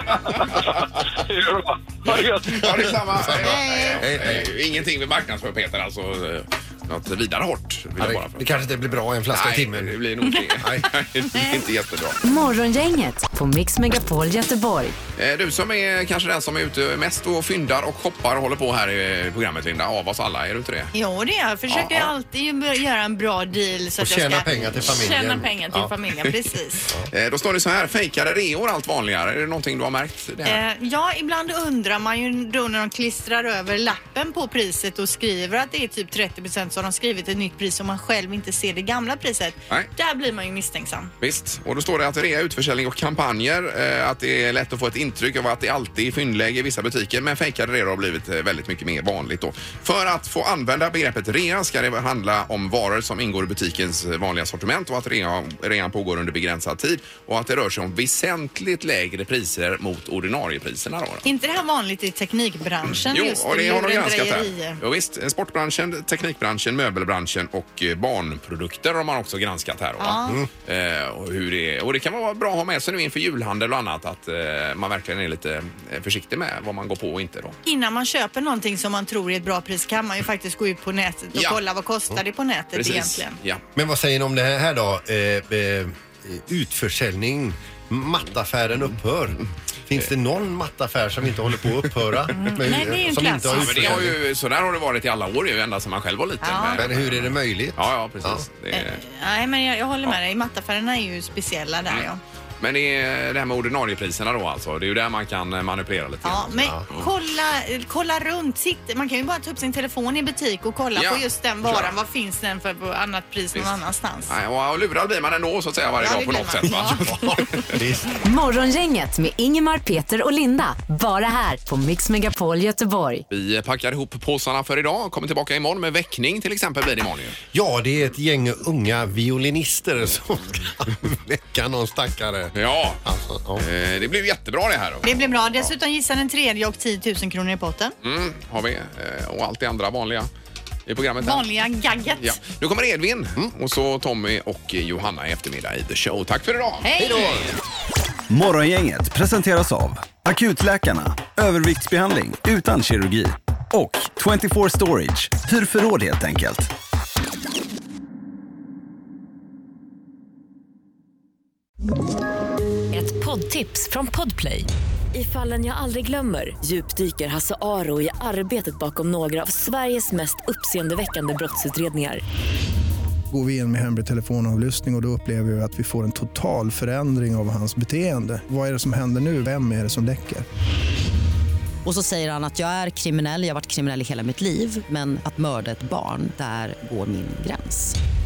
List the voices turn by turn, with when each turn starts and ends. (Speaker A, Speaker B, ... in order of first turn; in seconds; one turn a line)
Speaker A: 0.3-3.0
Speaker B: 2.4-8.5
Speaker C: 2.6-4.5
Speaker D: 3.4-4.0
Speaker C: 8.0-10.0
Speaker B: 9.3-12.2
Speaker C: 10.6-10.9
Speaker E: 12.2-15.0
Speaker B: 15.2-20.9
Speaker D: 20.9-26.9
Speaker B: 21.7-22.1
Speaker C: 24.0-25.9
Speaker B: 27.1-30.6
Speaker D: 30.4-41.1
Speaker B: 41.2-61.2
Speaker D: 61.2-64.8
Speaker B: 63.1-77.6
Speaker D: 70.0-70.4
Speaker D: 77.7-83.4
Speaker B: 81.3-81.6
Speaker B: 82.8-83.6
Speaker C: 83.8-94.2
Speaker D: 92.3-94.0
Speaker B: 93.5-99.0
Speaker D: 96.4-96.8
Speaker C: 96.8-98.5
Speaker D: 98.7-102.2
Speaker B: 102.6-107.1
Speaker D: 106.2-114.3
Speaker B: 111.0-112.0
Speaker B: 114.3-117.8
Speaker D: 116.0-117.1
Speaker C: 116.7-118.2
Speaker E: 118.2-123.2
Speaker B: 123.3-127.4
Speaker C: 127.5-133.7
Speaker B: 132.5-133.0
Speaker B: 133.6-135.7
Speaker D: 135.0-137.9
Speaker B: 138.0-140.3
Speaker B: 140.9-141.5
Speaker D: 141.2-142.4
Speaker B: 142.2-146.9
Speaker D: 146.8-147.4
Speaker C: 147.0-147.5
Speaker F: 148.3-156.7
Speaker G: 162.9-172.2
Speaker H: 173.3-180.4
Speaker I: 181.8-188.0